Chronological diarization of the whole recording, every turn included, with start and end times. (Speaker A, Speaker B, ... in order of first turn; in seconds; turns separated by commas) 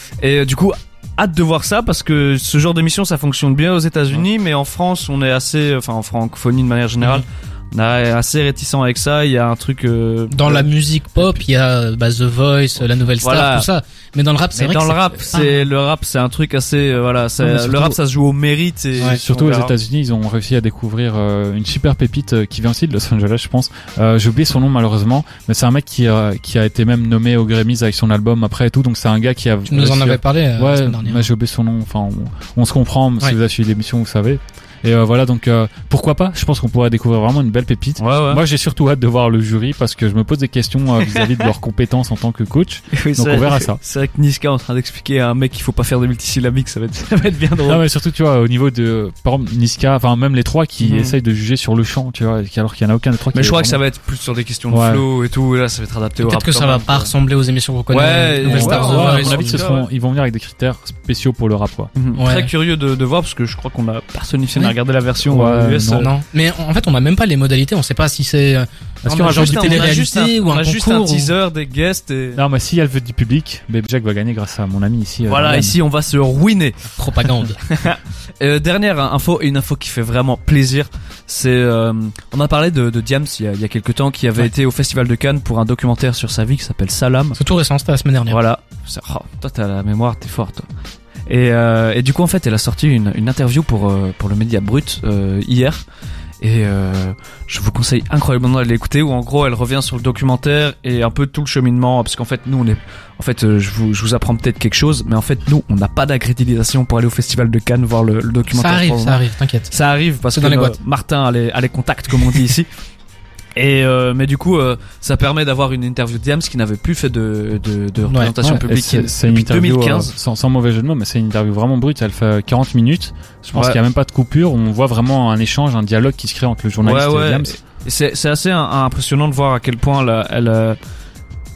Speaker A: 0.2-10.7, Speaker B: 10.3-15.7, Speaker A: 13.2-13.7, Speaker A: 14.5-19.7, Speaker B: 17.4-18.0, Speaker C: 19.1-43.8, Speaker B: 29.7-31.3, Speaker A: 38.0-38.4, Speaker A: 41.0-41.5, Speaker A: 42.9-47.8, Speaker C: 47.6-53.8, Speaker A: 50.8-51.2, Speaker A: 53.3-57.1, Speaker C: 54.7-55.0, Speaker B: 56.2-59.6, Speaker A: 57.9-59.9, Speaker C: 58.4-61.9, Speaker A: 61.9-66.1, Speaker B: 62.1-62.5, Speaker C: 65.2-66.1, Speaker B: 65.9-71.3, Speaker A: 69.0-72.4, Speaker C: 72.3-75.8, Speaker A: 75.3-87.4, Speaker B: 77.0-77.6, Speaker B: 87.4-88.4, Speaker A: 88.3-90.7, Speaker A: 91.3-95.8, Speaker A: 96.4-109.2, Speaker B: 108.5-109.7, Speaker A: 109.7-112.7, Speaker B: 110.3-110.8, Speaker A: 113.5-120.1, Speaker B: 118.0-118.6, Speaker C: 118.4-127.5, Speaker A: 123.5-123.8, Speaker A: 126.8-130.8